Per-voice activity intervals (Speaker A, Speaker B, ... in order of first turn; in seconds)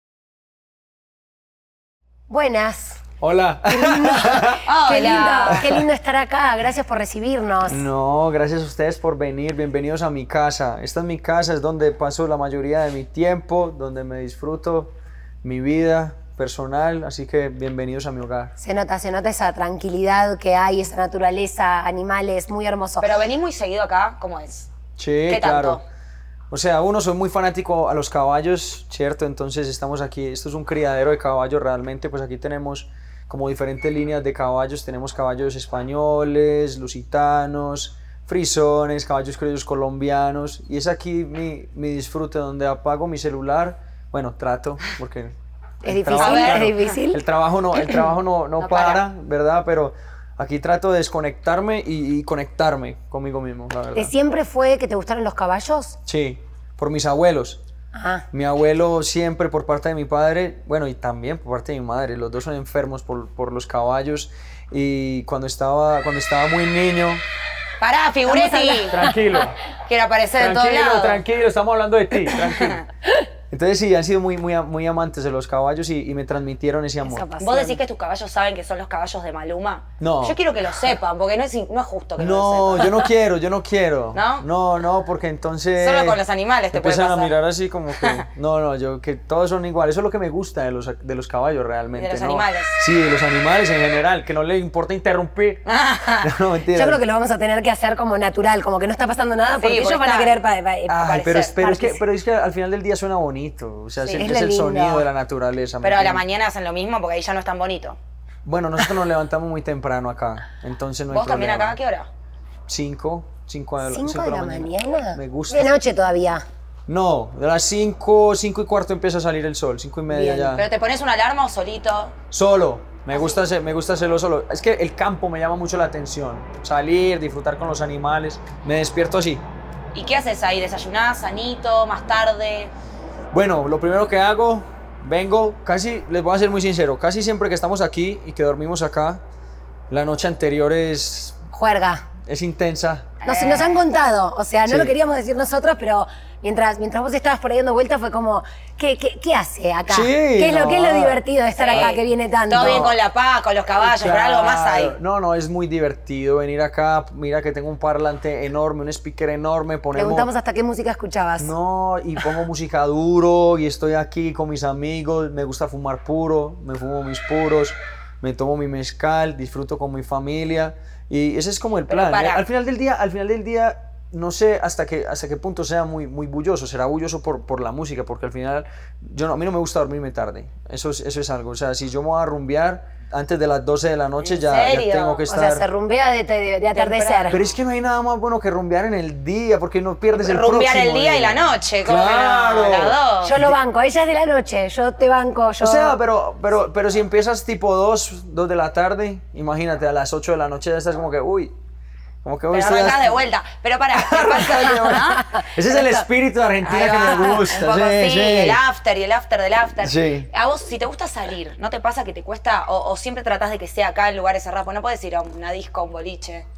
Speaker A: 2.3-3.0, 3.7-7.8, 18.6-23.1, 45.8-47.2, 48.6-49.0, 53.9-56.0, 57.9-58.2, 68.3-69.1, 77.0-77.8, 96.7-102.0, 104.2-105.0, 113.8-116.4, 120.1-120.5, 141.5-142.0, 143.2-152.9, 159.9-161.5, 185.3-187.4, 193.2-195.9
Speaker B: 3.2-4.7, 5.5-5.8, 7.7-18.5, 25.0-25.8, 26.5-54.1, 56.0-57.6, 58.3-67.2, 68.9-69.5, 70.3-72.8, 73.5-77.3, 80.0-80.4, 82.2-86.2, 86.7-95.7, 96.2-97.0, 100.9-106.2, 108.4-111.8, 112.7-115.7, 116.9-120.7, 122.3-129.4, 133.3-139.2, 139.9-141.4, 142.2-143.2, 144.7-144.9, 149.9-151.2, 152.5-153.0, 153.8-160.3, 161.4-185.7, 187.3-193.6, 195.6-201.5, 202.2-203.2, 203.9-208.6, 209.8-210.3
Speaker C: 4.6-5.6, 23.0-24.7, 25.3-25.8, 46.1-46.9, 67.8-69.0, 69.8-71.2, 72.3-72.8, 77.4-83.0, 84.1-84.5, 85.8-87.3, 88.0-88.2, 91.9-92.8, 95.7-96.3, 99.6-100.4, 104.0-104.2, 105.8-108.0, 111.1-112.1, 120.3-122.2, 129.9-132.7, 143.2-143.8, 151.6-154.9, 171.9-172.4, 184.2-185.2, 186.7-187.5, 190.1-193.3, 202.5-205.3, 206.6-216.4